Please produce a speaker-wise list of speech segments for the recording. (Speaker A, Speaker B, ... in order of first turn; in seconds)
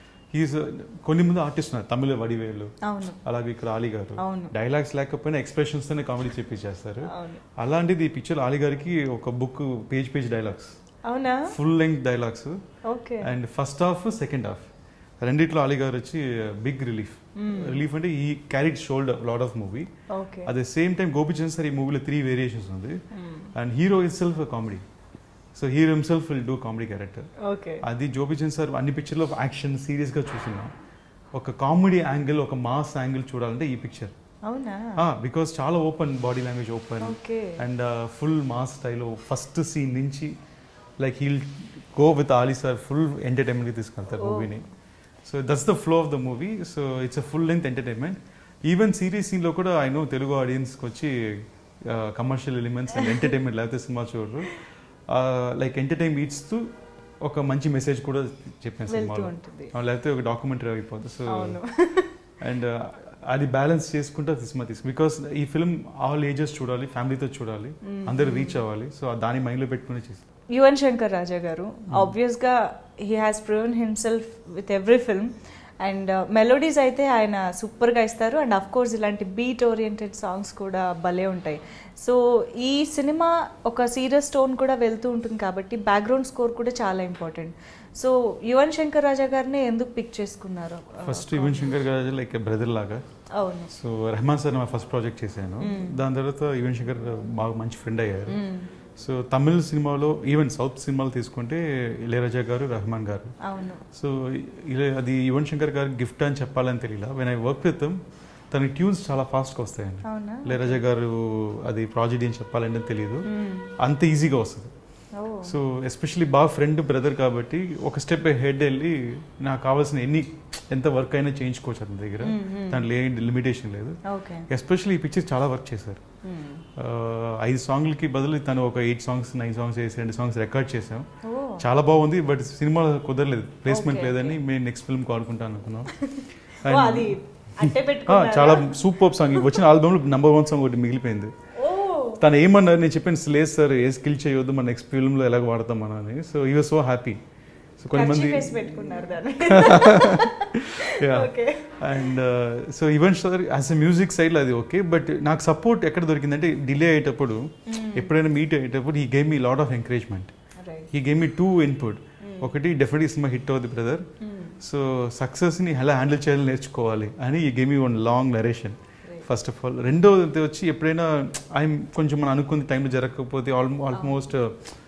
Speaker A: 0.3-10.8, 11.5-12.6, 13.2-14.7, 15.2-19.9, 20.4-23.0, 23.5-24.8, 25.6-27.3, 27.8-30.7, 31.3-34.1, 35.0-40.4, 41.0-44.7, 45.2-56.7, 57.2-61.6, 62.4-70.2, 71.9-72.2, 91.0-93.0, 93.7-98.4, 99.0-103.3, 103.9-108.0, 108.5-113.3, 113.8-114.7, 115.5-126.0, 126.8-131.1, 131.6-137.2, 138.1-141.3, 142.2-147.2, 147.8-150.3, 150.9-160.3, 160.9-164.1, 164.6-174.5
Speaker B: 2.8-3.2, 4.2-4.5, 7.1-7.4, 11.0-11.5, 12.8-13.3, 17.4-17.8, 20.1-20.5, 23.1-23.5, 27.4-27.8, 34.5-35.0, 37.0-37.6, 44.2-44.5, 58.9-59.7, 61.3-62.1, 67.8-68.6, 70.5-91.8, 93.4-93.7, 95.6-96.0, 98.3-98.7, 103.4-103.8, 110.0-110.8, 113.2-113.7, 115.1-115.5, 122.2-122.9, 124.0-124.5, 126.2-126.6, 131.2-131.6, 133.7-134.4, 136.2-138.8, 141.6-142.2, 147.9-152.1, 157.7-158.1, 160.6-160.9, 162.2-162.5, 164.2-164.6, 173.9-174.3